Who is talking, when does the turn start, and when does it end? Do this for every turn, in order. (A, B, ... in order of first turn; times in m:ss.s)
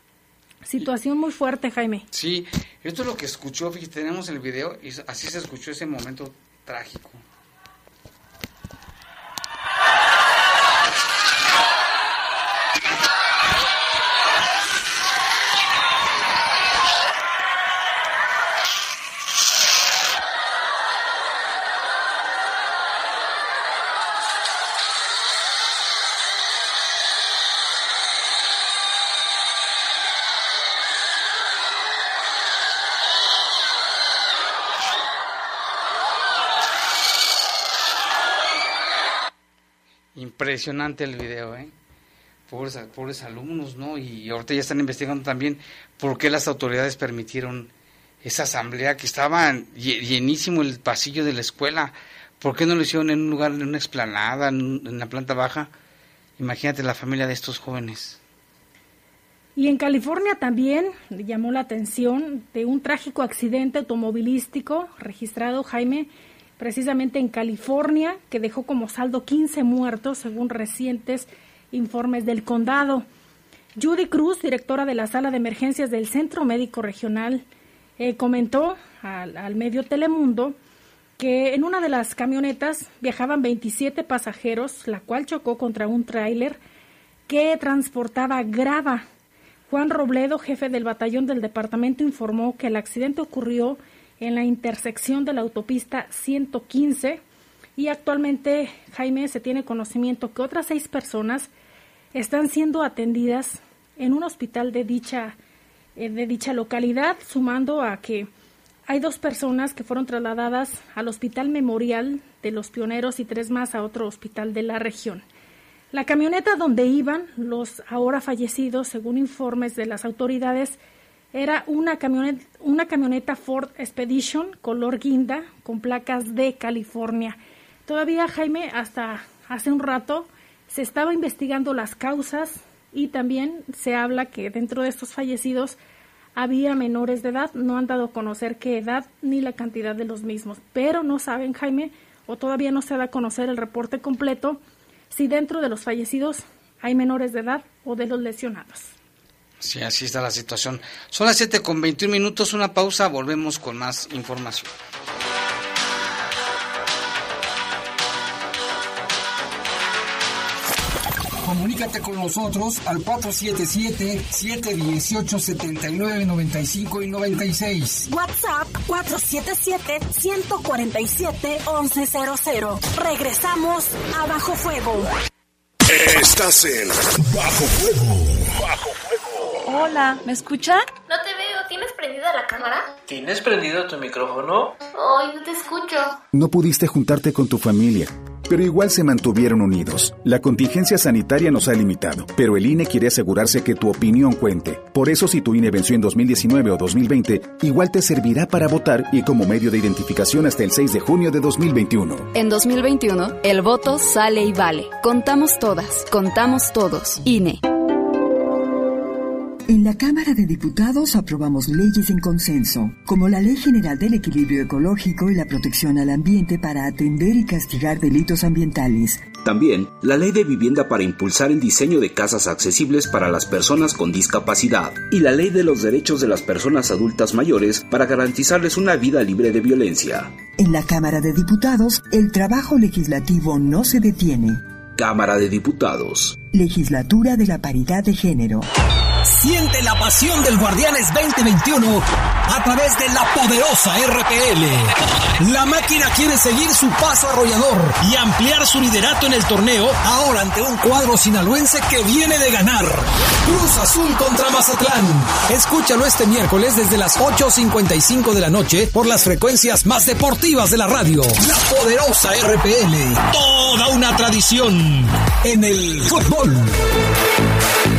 0:00.6-0:02.1 A
0:02.1-0:07.2 B
0:40.2-0:41.7 B
0:42.5-0:47.7 B
0:48.2-0:55.7 B
0:56.4-0:58.2 B
0:59.6-1:13.0 A
1:13.8-1:17.4 A
1:18.0-1:20.6 A
1:21.2-1:26.6 A
1:27.3-1:29.1 A
1:29.7-1:37.2 A
1:37.8-1:41.5 A
1:42.1-1:45.4 A
1:46.0-1:48.3 A
1:48.9-1:55.2 A
1:55.9-2:00.8 A
2:01.3-2:15.8 A
2:16.4-2:24.6 A
2:25.1-2:28.9 A
2:29.6-2:34.7 B
2:41.4-2:48.1 C
2:48.1-2:55.1 D
2:55.9-2:59.7 E
3:01.1-3:02.9 F
3:04.9-3:06.2 F
3:06.3-3:22.3 G
3:22.3-3:27.6 H
3:29.7-3:39.3 I
3:39.4-3:50.3 J
3:50.6-3:54.6 I
3:55.0-3:56.4 J
3:56.5-3:58.7 I
3:59.3-4:26.6 K